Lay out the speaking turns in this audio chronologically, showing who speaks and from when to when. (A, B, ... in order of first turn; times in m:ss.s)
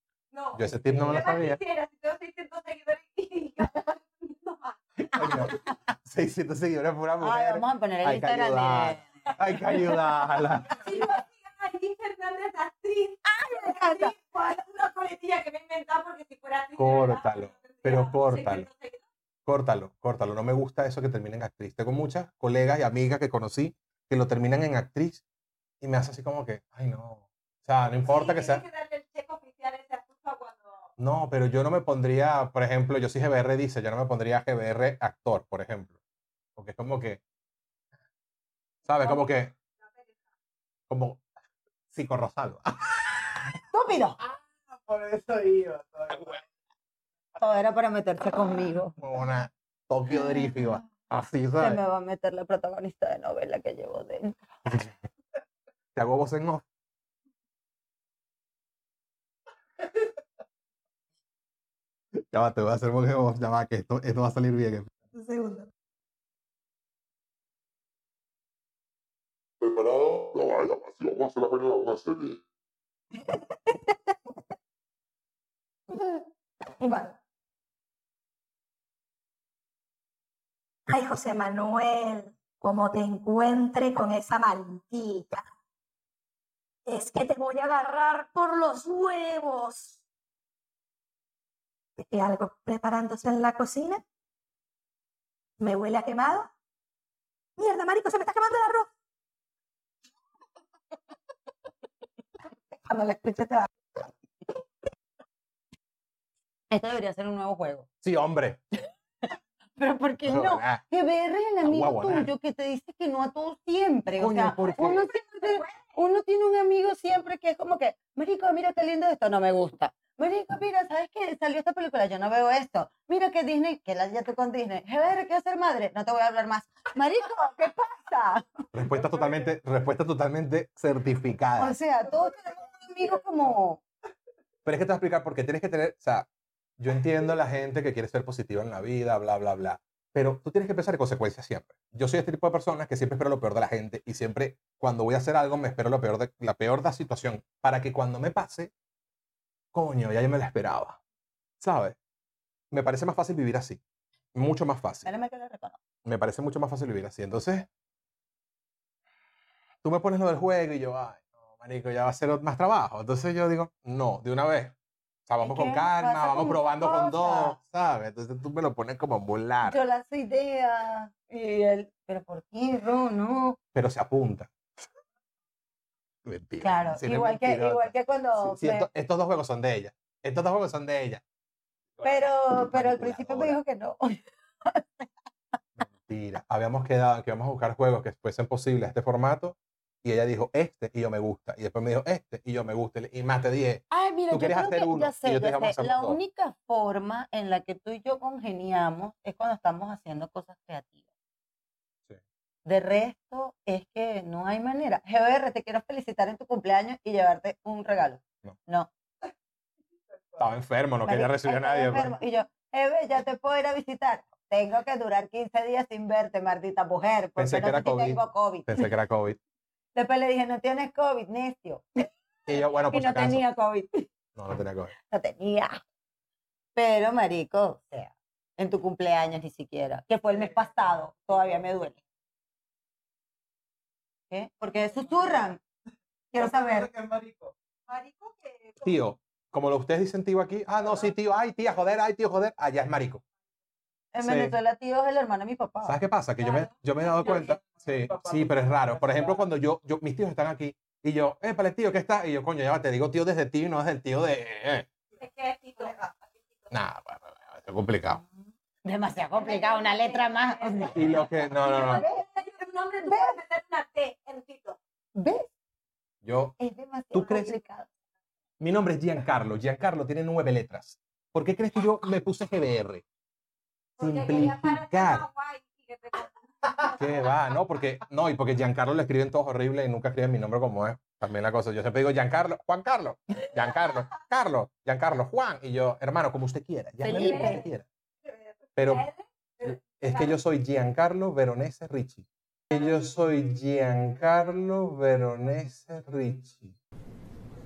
0:00.3-0:04.8 A
0:00.5-0:01.6 B
0:05.0-0:10.8 B
0:05.2-0:05.7 C
0:07.2-0:09.3 C
0:10.7-0:19.0 A
0:13.2-0:14.1 C
0:16.8-0:18.7 B
0:19.4-0:25.2 B
0:25.8-0:28.6 B
0:28.0-0:30.9 A
0:31.0-0:35.9 B
0:36.6-0:37.2 B
0:38.8-0:39.5 B
0:40.9-0:41.2 B
0:41.9-0:43.1 B
0:43.7-0:44.2 C
0:44.2-0:46.4 D
0:47.4-0:49.0 C
0:49.0-0:51.8 B
0:51.6-0:54.4 C
0:54.6-0:54.9 B
0:55.9-0:56.6 B
1:02.3-1:04.9 B
1:05.1-1:05.7 E
1:09.6-1:12.4 F
1:16.8-1:17.1 E
1:20.9-1:25.4 E
1:26.8-1:30.0 E
1:32.0-1:34.0 E
1:35.6-1:36.5 E
1:37.6-1:38.9 E
1:42.8-1:43.7 E
1:46.7-1:47.9 C
1:48.0-1:48.6 B
1:49.8-2:08.5 C
1:50.2-1:50.8 B
1:51.6-1:52.3 B
1:54.2-1:55.0 B
1:55.0-1:56.0 A
2:08.7-2:11.8 B
2:08.9-2:09.5 D
2:11.6-2:13.8 C
2:14.6-2:16.3 B
2:16.8-2:28.7 B
2:29.7-2:31.0 B
2:31.6-2:32.0 B
2:32.7-2:33.8 B
2:34.3-2:35.1 B
2:35.0-2:35.8 C
2:36.0-2:37.7 B
2:39.8-2:44.7 B
2:45.3-2:49.8 B
2:45.4-2:47.6 C
2:49.6-2:53.6 C
2:53.7-2:54.5 B
2:56.2-3:01.2 B
2:56.6-2:58.9 C
3:02.0-3:03.6 B
3:02.0-3:04.8 C
3:05.8-3:16.2 B
3:13.9-3:21.0 C
3:22.6-3:28.9 C
3:30.4-3:32.1 B
3:31.0-3:38.9 C
3:37.4-3:39.4 B
3:39.9-3:44.1 C
3:42.5-3:43.4 B
3:44.4-3:44.9 B
3:45.0-3:45.8 C
3:46.8-3:52.0 C
3:50.3-3:50.9 D
3:54.3-3:55.6 C
3:56.3-3:56.9 C
3:56.3-3:57.5 D
3:58.0-3:58.3 D
3:58.8-4:03.2 B
4:04.1-4:06.0 C
4:04.2-4:04.5 B
4:05.8-4:14.9 B
4:07.2-4:09.5 D
4:15.2-4:16.0 A
4:16.7-4:18.2 B
4:18.8-4:21.1 C
4:19.4-4:24.8 A
4:20.9-4:22.0 B
4:21.7-4:22.3 C
4:23.0-4:23.4 C
4:25.1-4:25.5 C
4:26.2-4:26.6 B
4:26.6-4:27.9 C
4:27.1-4:27.5 B
4:28.6-4:33.0 B
4:34.0-4:37.3 A
4:34.0-4:35.2 B
4:37.0-4:47.8 B
4:47.0-4:47.7 C
4:47.1-4:47.7 A
4:48.7-4:50.3 A
4:48.8-4:49.0 B
4:49.6-4:56.7 B